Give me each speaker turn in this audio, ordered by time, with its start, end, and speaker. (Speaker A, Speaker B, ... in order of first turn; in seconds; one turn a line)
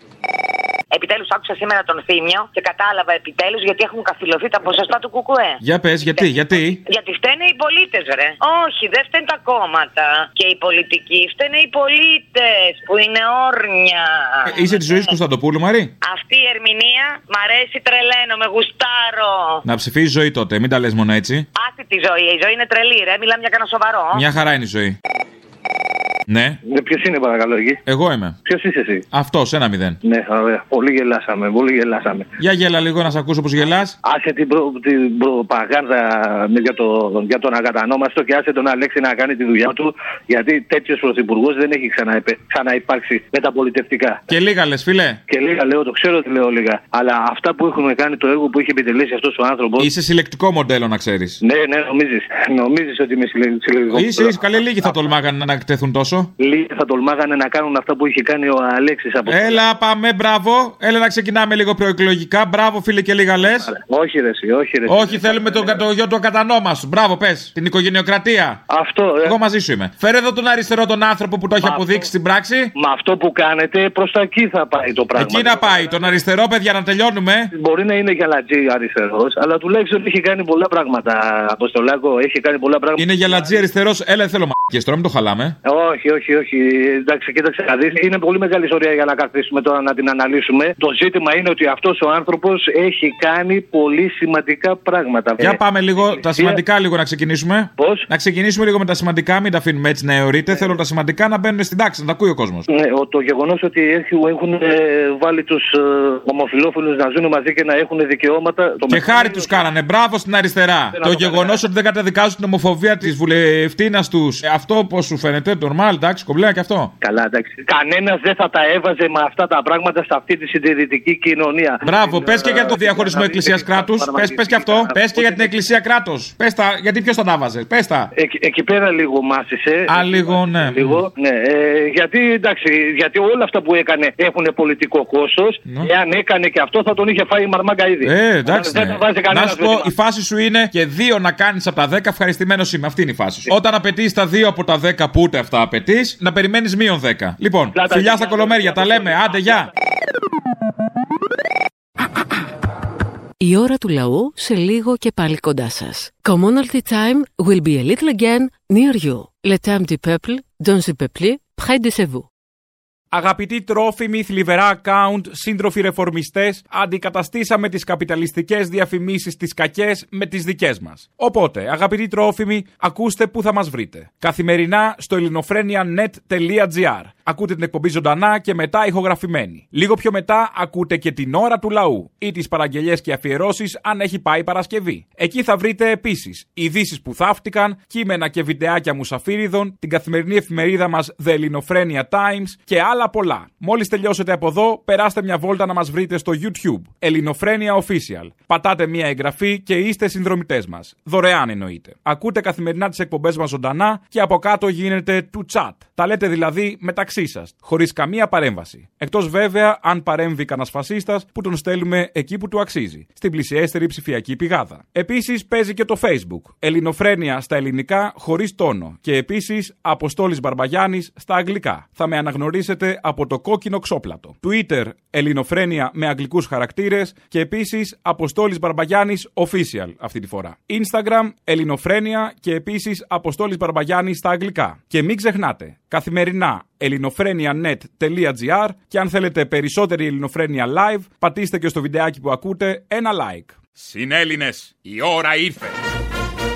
Speaker A: 0.9-5.6
Speaker B: 5.6-6.8
Speaker A: 6.9-15.0
Speaker B: 14.5-15.9
Speaker A: 16.0-19.6
Speaker B: 19.6-21.4
Speaker A: 21.6-24.2
Speaker B: 24.1-24.9
Speaker B: 26.3-26.6
Speaker C: 26.6-27.8
Speaker B: 27.9-28.4
Speaker C: 28.4-29.0
Speaker B: 29.1-30.0
Speaker C: 30.0-32.3
Speaker B: 32.4-34.0
Speaker C: 34.0-44.2
Speaker B: 44.3-45.2
Speaker C: 45.3-49.9
Speaker B: 49.8-51.4
Speaker C: 51.4-54.9
Speaker B: 53.9-56.3
Speaker C: 56.4-59.6
Speaker B: 59.2-63.7
Speaker C: 63.5-65.8
Speaker B: 64.9-68.6
Speaker C: 68.7-69.3
Speaker B: 69.2-72.7
Speaker C: 71.6-72.0
Speaker C: 72.7-75.7
Speaker B: 75.1-77.5
Speaker C: 77.5-83.6
Speaker B: 83.0-85.5
Speaker C: 85.7-96.6
Speaker B: 95.4-102.6
Speaker C: 97.8-98.0
Speaker C: 102.7-109.6
Speaker B: 108.9-116.9
Speaker C: 110.9-111.6
Speaker C: 117.0-125.5
Speaker B: 121.8-128.1
Speaker C: 128.1-139.9
Speaker B: 129.9-131.0
Speaker B: 138.0-149.7
Speaker C: 147.7-149.4
Speaker D: 153.4-162.2
Speaker E: 163.1-245.8